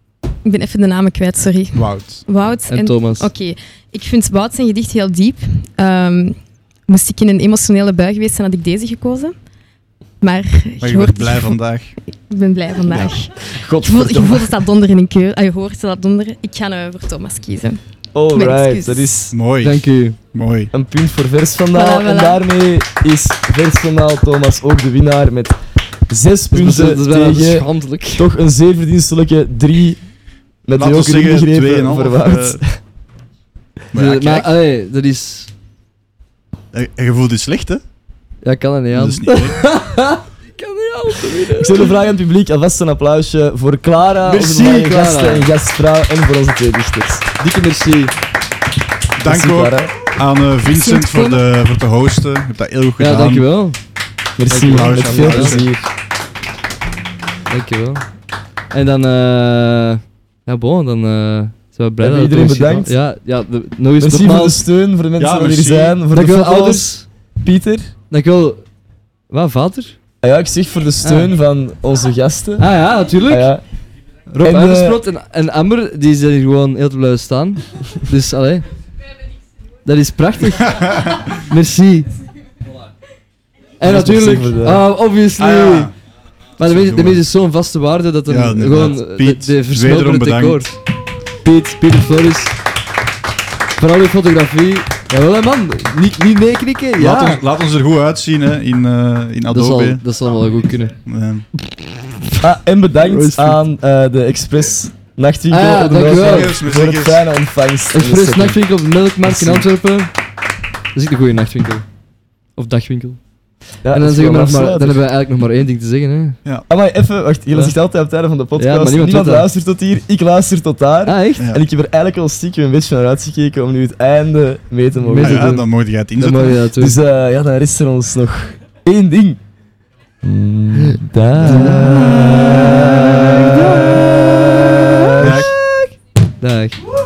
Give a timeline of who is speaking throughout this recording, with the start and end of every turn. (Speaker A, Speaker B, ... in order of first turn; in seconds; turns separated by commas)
Speaker A: 0.4-6.4, Speaker B: 1.7-2.2, Speaker C: 2.7-3.3, Speaker A: 6.9-9.3, Speaker A: 10.2-19.1, Speaker B: 10.8-11.9, Speaker D: 12.8-14.6, Speaker D: 18.1-19.3, Speaker B: 19.3-19.8, Speaker C: 19.6-20.1, Speaker B: 20.3-20.7, Speaker D: 20.7-25.6, Speaker A: 21.7-22.4, Speaker D: 26.1-30.0, Speaker C: 26.5-28.3, Speaker D: 30.6-32.8, Speaker B: 30.8-32.6, Speaker B: 33.9-34.5, Speaker C: 33.9-35.5, Speaker B: 36.7-37.8, Speaker C: 38.4-41.9, Speaker B: 38.9-39.6, Speaker D: 41.6-47.2, Speaker C: 44.2-45.5, Speaker C: 47.4-48.1, Speaker B: 49.2-53.5, Speaker D: 49.2-50.1, Speaker A: 50.7-51.4, Speaker C: 53.0-53.8, Speaker D: 54.4-55.9, Speaker C: 54.5-55.6, Speaker B: 54.5-55.7, Speaker C: 57.5-58.1, Speaker C: 58.7-64.6, Speaker D: 62.0-62.9, Speaker D: 64.0-67.9, Speaker B: 65.2-66.0, Speaker C: 66.1-67.0, Speaker C: 68.1-68.6, Speaker C: 69.3-69.9, Speaker D: 70.2-72.7, Speaker C: 71.0-71.3, Speaker C: 72.6-73.5, Speaker D: 73.3-73.6, Speaker C: 74.3-78.7, Speaker D: 74.4-75.0, Speaker C: 79.8-82.1, Speaker B: 80.8-81.2, Speaker C: 83.8-85.9, Speaker D: 83.8-84.8, Speaker B: 85.4-85.9, Speaker C: 86.6-90.8, Speaker B: 86.6-87.2, Speaker B: 88.3-90.7, Speaker C: 91.4-92.5, Speaker C: 93.8-97.4, Speaker B: 97.0-100.0, Speaker C: 99.5-101.0, Speaker B: 101.0-101.5, Speaker D: 102.4-108.6, Speaker C: 103.0-103.6, Speaker C: 105.5-106.6, Speaker B: 106.2-107.3, Speaker C: 107.9-110.1, Speaker D: 109.2-109.7, Speaker C: 110.9-111.8, Speaker C: 112.6-113.2, Speaker D: 113.8-115.0, Speaker C: 113.9-116.4, Speaker D: 116.7-125.5, Speaker C: 118.5-119.5, Speaker C: 121.0-121.5, Speaker C: 125.0-127.0, Speaker B: 125.1-126.6, Speaker D: 126.8-129.4, Speaker D: 130.2-134.2, Speaker C: 130.8-132.4, Speaker C: 133.0-135.1, Speaker D: 134.7-135.5, Speaker B: 135.2-135.5, Speaker C: 136.4-136.8